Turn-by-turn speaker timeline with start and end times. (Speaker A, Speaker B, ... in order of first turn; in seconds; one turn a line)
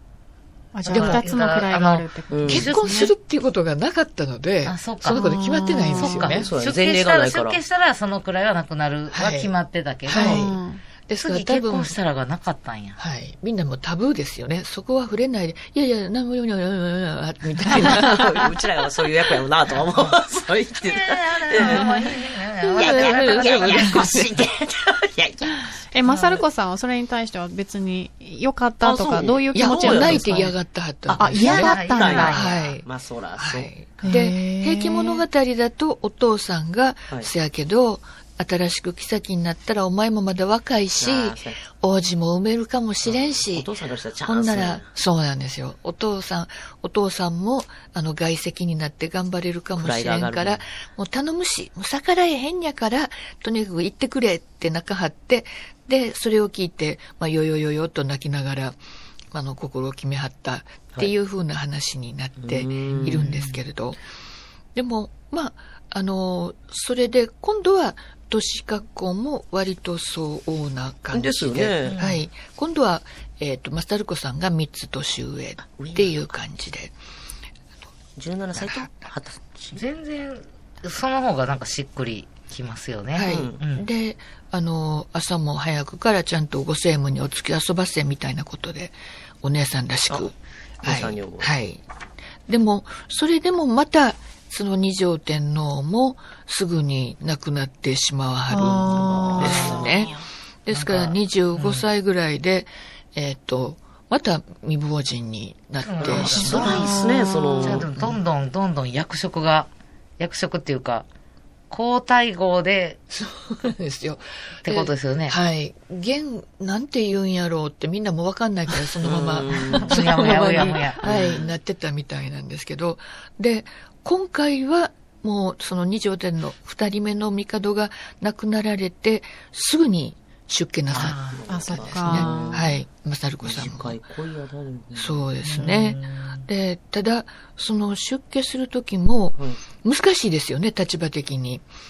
Speaker A: 0.7-3.0
Speaker B: 0.8-3.1
Speaker C: 0.9-1.3
Speaker D: 2.3-2.7
Speaker C: 2.5-6.5
Speaker B: 4.6-10.5
Speaker A: 5.0-6.5
Speaker D: 6.1-7.6
Speaker C: 9.1-9.5
Speaker C: 10.1-11.9
Speaker A: 10.1-10.8
Speaker B: 11.2-13.0
Speaker C: 13.0-18.5
Speaker D: 17.8-22.0
Speaker B: 19.9-20.2
Speaker B: 20.8-24.4
Speaker A: 21.6-22.1
Speaker C: 22.7-24.3
Speaker D: 22.8-25.7
Speaker A: 25.9-30.5
Speaker B: 26.0-26.4
Speaker D: 28.8-30.4
Speaker C: 29.5-43.7
Speaker A: 31.1-32.4
Speaker D: 31.1-34.1
Speaker B: 31.4-32.7
Speaker A: 34.0-35.2
Speaker D: 41.0-41.6
Speaker D: 43.0-44.9
Speaker C: 44.2-58.8
Speaker D: 49.8-50.6
Speaker C: 59.3-64.0
Speaker D: 62.4-63.2
Speaker B: 62.9-63.6
Speaker C: 64.7-76.9
Speaker D: 71.1-72.0
Speaker B: 71.9-72.2
Speaker D: 75.8-76.2
Speaker D: 78.2-79.8
Speaker C: 78.5-79.1
Speaker B: 79.7-83.9
Speaker C: 83.1-91.8
Speaker D: 83.3-83.6
Speaker D: 90.8-91.5
Speaker C: 92.5-106.9
Speaker A: 98.5-99.7
Speaker D: 98.9-100.2
Speaker B: 99.4-99.9
Speaker B: 100.7-101.9
Speaker B: 105.8-111.1
Speaker D: 106.0-107.9
Speaker A: 106.6-107.8
Speaker C: 107.9-108.2
Speaker B: 111.7-113.0
Speaker C: 113.1-134.0
Speaker B: 114.6-115.3
Speaker D: 119.0-119.9
Speaker B: 119.7-121.0
Speaker D: 121.0-121.5
Speaker B: 130.9-131.4
Speaker D: 131.0-132.7
Speaker A: 131.5-132.7
Speaker B: 132.2-132.4
Speaker D: 133.4-135.2
Speaker C: 134.9-141.6
Speaker B: 135.4-136.5